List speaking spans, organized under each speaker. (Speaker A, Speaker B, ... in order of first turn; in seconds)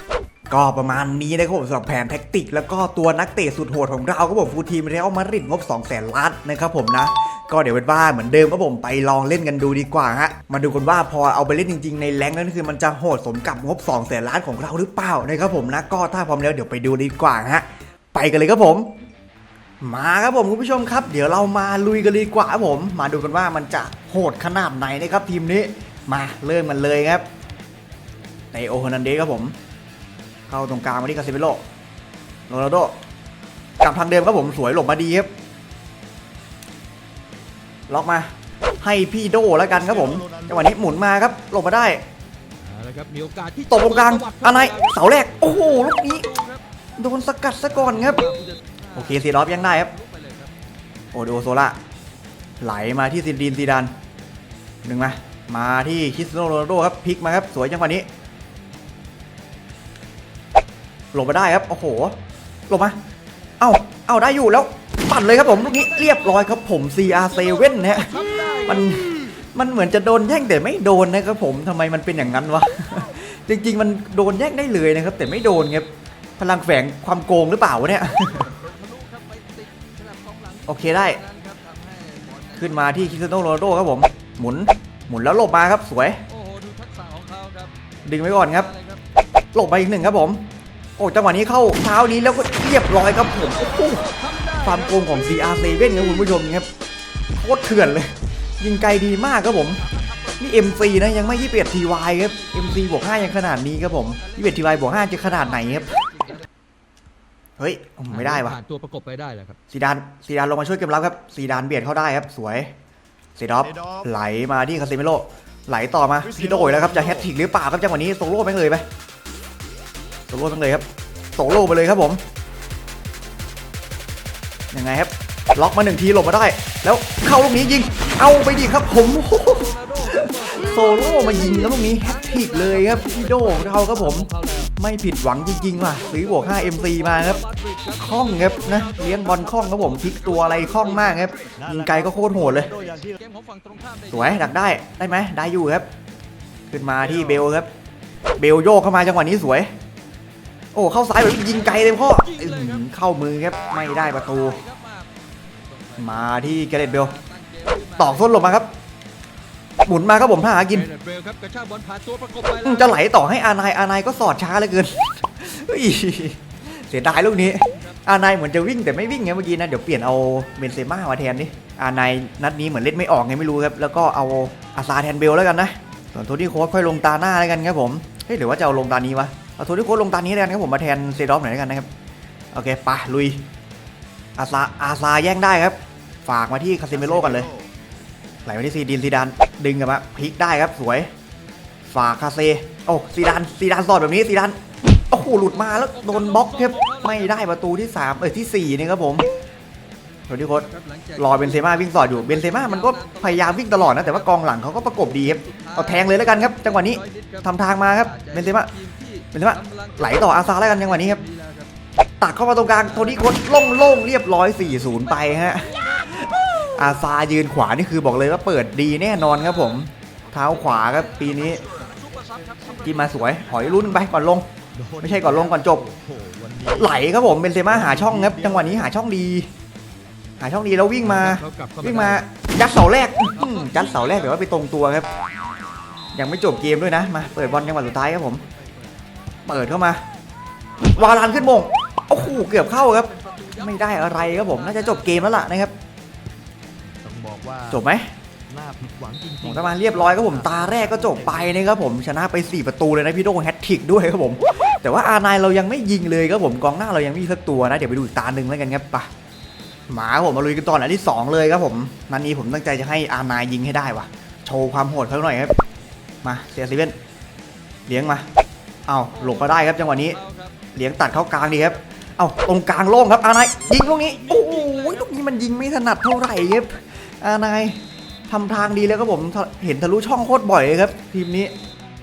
Speaker A: 0.5-18.9, 19.8-27.2, 28.5-29.5, 30.5-31.6, 32.5-32.9, 33.8-35.3, 37.9-38.3, 38.8-42.0, 43.7-46.3, 47.0-48.2, 48.9-49.9, 51.1-51.8, 52.6-53.9, 54.8-58.1, 61.1-62.1, 62.7-63.0, 63.6-75.9, 76.4-78.5, 80.7-81.2, 82.5-86.2, 88.0-88.7, 89.5-90.4, 91.0-96.7, 97.4-99.8, 100.4-106.0, 107.6-108.6, 109.7-112.7, 113.4-118.8, 120.3-122.2, 124.7-137.4, 137.9-142.7, 144.1-145.9, 146.7-147.7, 148.4-149.7, 150.7-154.6, 156.0-157.1, 158.0-158.7, 159.8-160.9, 162.6-181.9, 182.5-183.4, 184.4-187.5, 188.4-191.1, 191.9-194.6, 195.1-199.3, 200.3-208.7, 209.3-211.2, 212.2-221.6, 222.8-224.4, 225.0-225.8, 226.8-229.5, 230.4-235.1, 236.1-238.4, 239.4-240.0, 240.9-245.7, 247.7-248.1, 249.4-259.1, 259.9-265.5, 266.2-266.9, 267.9-268.3, 268.9-270.2, 270.7-281.5
Speaker B: 39.9-40.5, 141.6-143.2, 187.1-187.6, 224.8-226.9, 227.7-228.8, 247.0-247.8, 248.5-251.5
Speaker C: 42.6-45.0, 45.5-46.6, 47.8-50.5, 65.7-66.1, 67.4-68.9, 78.2-83.3, 86.3-87.7, 88.5-89.0, 93.3-95.2, 104.1-106.2, 108.1-109.6, 129.4-134.7, 136.1-141.5, 142.8-144.5, 151.5-152.8, 154.0-155.1, 155.7-158.4, 160.6-162.9, 195.7-197.3, 200.7-204.2, 205.4-207.4, 208.0-211.7, 213.0-213.6, 214.8-216.7, 219.5-219.8, 220.5-223.7, 231.1-232.2, 233.3-234.4, 242.3-245.2, 269.2-270.6, 273.8-275.1